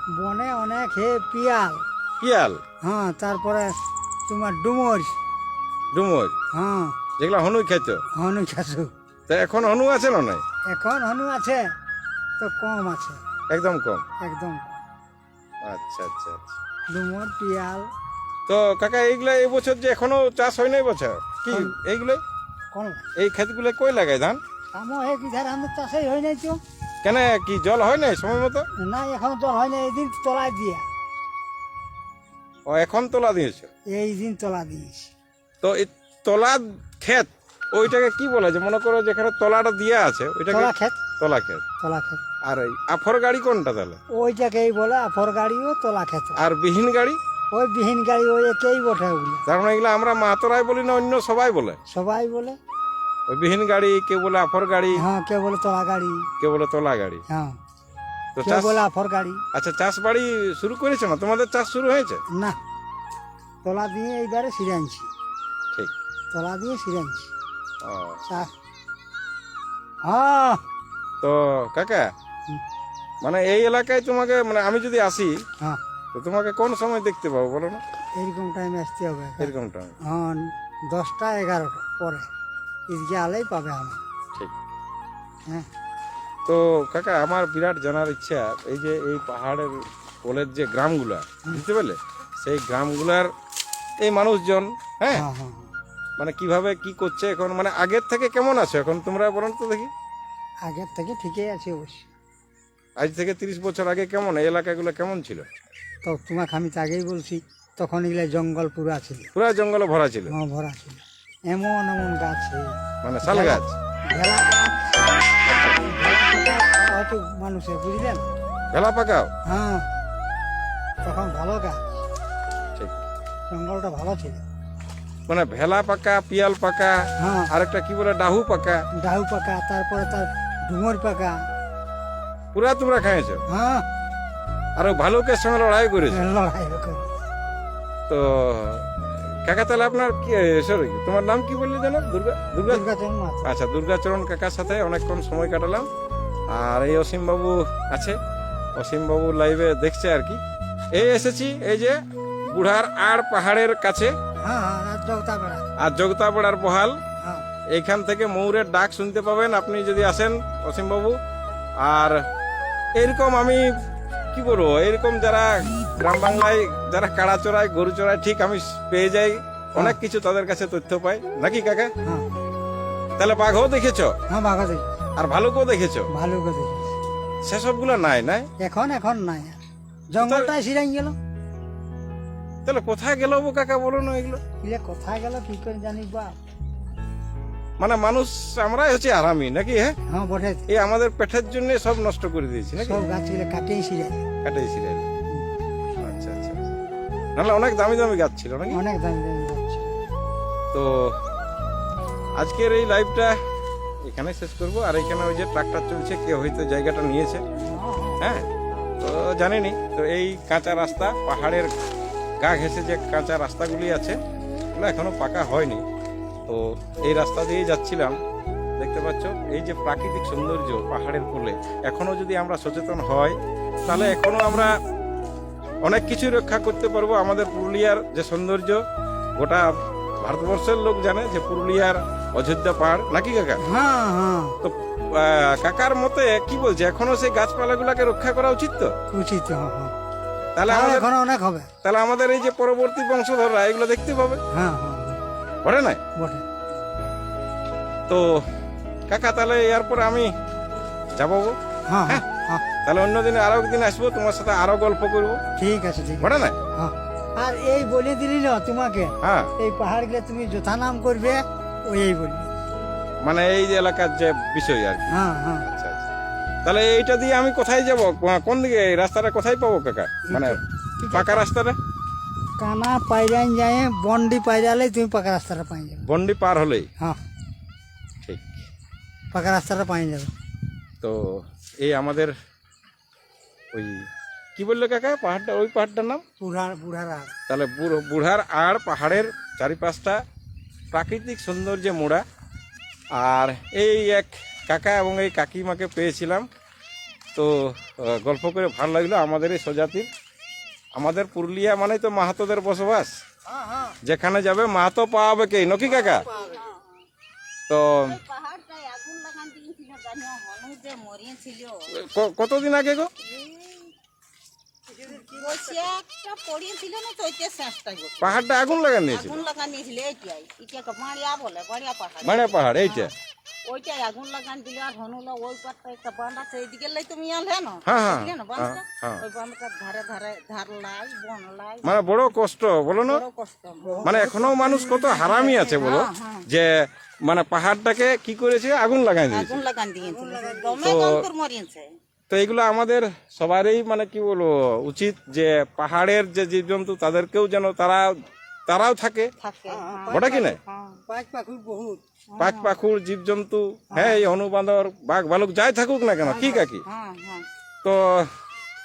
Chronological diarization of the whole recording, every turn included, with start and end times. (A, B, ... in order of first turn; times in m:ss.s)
0:00.2-0:01.8 A
0:02.2-0:02.6 B
0:02.8-0:03.7 A
0:04.3-0:05.2 A
0:05.9-0:06.4 B
0:06.5-0:07.0 A
0:07.2-0:08.0 B
0:08.2-0:08.9 A
0:09.3-0:10.4 B
0:10.7-0:11.6 A
0:12.4-0:13.2 A
0:13.5-0:14.0 B
0:14.2-0:14.8 A
0:15.6-0:16.6 B
0:16.9-0:17.9 A
0:18.5-0:22.2 B
0:21.5-0:21.8 A
0:22.7-0:23.0 A
0:23.2-0:24.4 B
0:24.7-0:26.6 A
0:27.0-0:28.7 B
0:28.8-0:30.8 A
0:32.7-0:33.7 B
0:33.9-0:35.1 A
0:35.6-0:41.6 B
0:40.5-0:41.0 A
0:41.8-0:42.2 A
0:42.5-0:44.0 B
0:44.1-0:46.4 A
0:46.4-0:47.2 B
0:47.5-0:49.4 A
0:49.5-0:51.8 B
0:51.9-0:52.6 A
0:53.3-0:55.0 B
0:55.0-0:56.3 A
0:56.4-0:57.2 B
0:57.3-0:57.6 A
0:58.4-0:58.8 B
0:58.4-0:59.4 A
0:59.5-1:02.2 B
1:02.3-1:02.6 A
1:03.6-1:05.1 A
1:06.3-1:07.3 A
1:07.8-1:08.2 B
1:08.2-1:08.5 A
1:10.1-1:10.6 A
1:11.2-1:12.1 B
1:13.2-1:15.4 B
1:16.1-1:17.8 B
1:18.2-1:19.5 A
1:19.4-1:20.0 B
1:20.1-1:22.3 A
1:22.9-1:24.0 A
1:26.5-1:33.3 B
1:34.0-1:35.2 B
1:35.1-1:35.7 A
1:36.2-1:39.9 B
1:40.6-1:42.1 A
1:43.0-1:45.5 B
1:46.0-1:49.3 A
1:49.3-1:50.4 B
1:50.3-1:52.7 A
1:53.0-1:53.8 B
1:53.2-1:55.0 A
1:55.6-1:58.3 A
1:58.7-1:59.3 B
1:59.5-1:59.9 A
2:01.0-2:01.8 A
2:03.5-2:04.4 A
2:05.3-2:07.0 B
2:07.2-2:07.5 A
2:07.5-2:08.9 B
2:09.0-2:11.4 A
2:12.5-2:13.4 B
2:13.5-2:13.9 A
2:14.8-2:16.2 B
2:16.1-2:17.1 A
2:18.1-2:18.9 B
2:19.4-2:22.8 B
2:22.7-2:23.5 A
2:23.4-2:25.9 B
2:26.5-2:28.2 B
2:28.8-2:30.4 B
2:30.9-2:32.0 B
2:32.5-2:34.2 B
2:34.4-2:35.6 A
2:35.8-2:37.0 B
2:37.7-2:41.2 B
2:41.8-2:42.2 B
2:43.0-2:43.7 B
2:44.3-2:51.9 B
2:52.0-2:52.3 A
2:53.2-2:54.1 B
2:54.3-2:55.0 A
2:55.2-2:56.1 B
2:56.1-2:57.0 A
2:57.4-2:58.5 B
2:58.6-2:59.6 A
3:00.1-3:01.2 A
3:00.2-3:00.5 B
3:02.6-3:04.4 B
3:04.6-3:06.4 A
3:07.8-3:10.0 B
3:10.1-3:10.7 A
3:10.7-3:13.0 B
3:12.8-3:14.2 A
3:14.4-3:15.1 B
3:16.0-3:16.6 B
3:17.4-3:18.8 B
3:18.7-3:19.9 A
3:20.7-3:21.1 B
3:22.4-3:23.4 B
3:24.0-3:27.4 B
3:27.7-3:28.1 A
3:28.2-3:28.5 B
3:29.0-3:31.7 B
3:32.4-3:34.2 B
3:34.8-3:35.8 B
3:36.5-3:38.2 B
3:38.8-3:44.8 B
3:43.9-3:44.2 A
3:45.8-3:48.8 B
3:49.4-3:53.6 B
3:53.7-3:54.6 A
3:54.6-3:58.9 B
3:59.1-3:59.9 A
4:00.6-4:01.1 B
4:00.7-4:01.7 A
4:01.8-4:04.4 B
4:04.5-4:05.2 A
4:05.6-4:06.0 B
4:06.2-4:06.4 A
4:08.1-4:08.5 B
4:09.1-4:10.3 B
4:11.2-4:11.6 B
4:11.9-4:12.6 A
4:12.8-4:15.4 B
4:15.6-4:22.6 A
4:16.2-4:16.6 B
4:19.2-4:19.5 B
4:23.2-4:26.1 B
4:25.1-4:25.7 A
4:26.6-4:30.6 B
4:30.3-4:31.5 A
4:31.1-4:31.8 B
4:32.6-4:36.0 A
4:36.0-4:36.9 B
4:38.2-4:38.7 B
4:39.3-4:40.3 A
4:41.0-4:42.3 B
4:43.7-4:46.2 B
4:46.4-4:47.3 A
4:47.5-4:50.2 B
4:50.9-4:52.2 B
4:53.1-4:56.5 B
4:57.4-5:00.1 B
5:01.0-5:03.1 B
5:03.5-5:04.0 A
5:04.0-5:06.3 B
5:05.9-5:06.6 A
5:06.3-5:07.0 C
5:07.7-5:08.2 B
5:08.0-5:11.9 C
5:11.9-5:13.1 B
5:13.2-5:13.9 C
5:14.9-5:15.9 A
5:15.2-5:18.4 C
5:18.2-5:19.4 B
5:19.1-5:23.1 C
5:22.2-5:23.1 B
5:23.7-5:32.0 C
5:27.9-5:29.2 B
5:31.8-5:33.2 B
5:33.1-5:34.3 C
5:33.8-5:35.7 A
5:34.0-5:39.6 B
5:35.4-5:36.4 C
5:39.3-5:41.9 C
5:40.0-5:40.9 A
5:40.8-5:41.3 B
5:42.3-5:49.3 B
5:49.4-5:51.0 C
5:49.7-5:52.0 A
5:50.1-5:50.6 B
5:52.3-5:52.8 C
5:52.4-5:56.8 B
5:53.9-5:54.2 A
5:56.2-5:56.7 A
5:56.8-5:57.5 C
5:57.8-5:58.3 B